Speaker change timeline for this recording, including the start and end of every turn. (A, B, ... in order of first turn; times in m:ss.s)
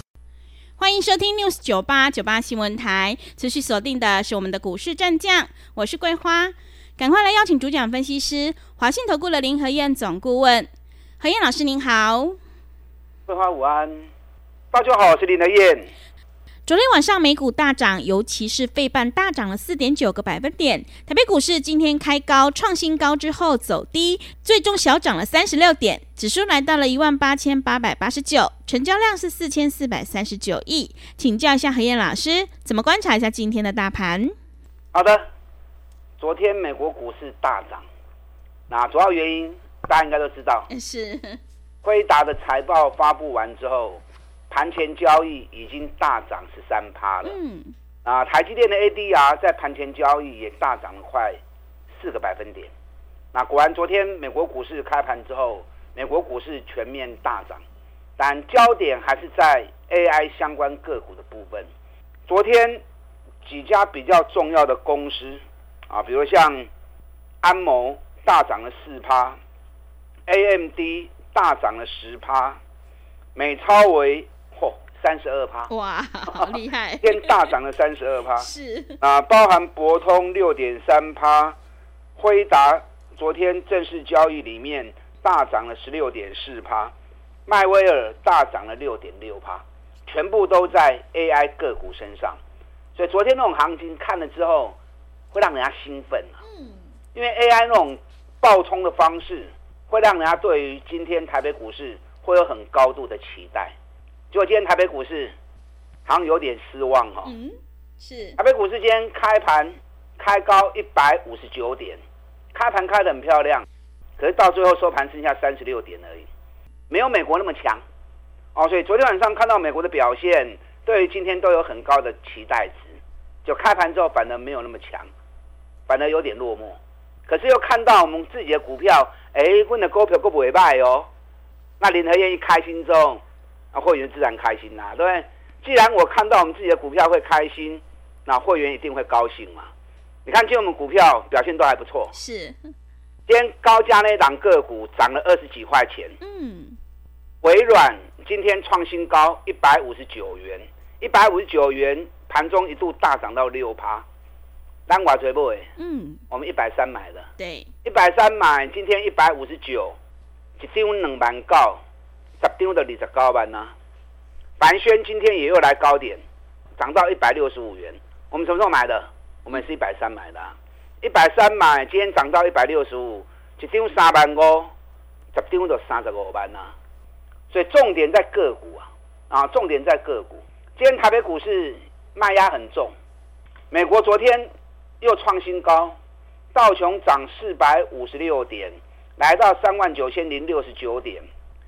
0:00.8-0:10.7 A
0:11.2-0:12.4 A
0:13.3-0:14.1 B
0:14.7-0:15.9 B
0:16.7-0:34.4 A
0:34.9-0:35.3 B
0:36.2-0:37.8 B
0:38.7-0:40.7 B
0:40.7-0:41.4 A
0:41.8-0:47.4 B
0:47.2-0:47.7 A
0:48.0-0:51.4 B
0:52.0-0:52.7 B
0:53.3-0:57.6 B
0:58.2-1:01.7 B
1:02.3-1:02.8 B
1:03.4-1:06.7 B
1:07.4-1:09.4 B
1:10.3-1:12.6 B
1:13.4-1:15.7 B
1:15.7-1:17.5 A
1:16.3-1:18.5 B
1:18.4-1:19.0 A
1:19.0-1:21.6 B
1:22.2-1:26.9 B
1:27.5-1:32.4 B
1:33.0-1:34.8 B
1:35.3-1:36.4 B
1:37.2-1:43.8 B
1:44.3-1:45.3 B
1:46.1-1:47.3 B
1:47.2-1:48.4 A
1:48.4-1:52.0 B
1:52.5-1:53.7 B
1:54.2-1:56.3 B
1:56.9-1:57.8 B
1:58.6-2:05.1 B
2:05.9-2:11.1 B
2:11.8-2:13.2 B
2:13.7-2:19.7 B
2:20.3-2:22.1 B
2:22.1-2:22.7 A
2:23.3-2:26.2 B
2:26.2-2:26.8 A
2:27.4-2:34.0 B
2:34.9-2:35.7 B
2:35.8-2:36.2 A
2:36.3-2:37.3 B
2:37.4-2:37.7 A
2:37.8-2:40.0 B
2:40.6-2:41.8 B
2:42.4-2:43.7 B
2:44.6-2:46.2 B
2:46.8-2:54.7 B
2:55.3-2:56.7 B
2:57.5-3:02.9 B
3:03.7-3:04.5 B
3:05.0-3:06.0 B
3:06.5-3:11.3 B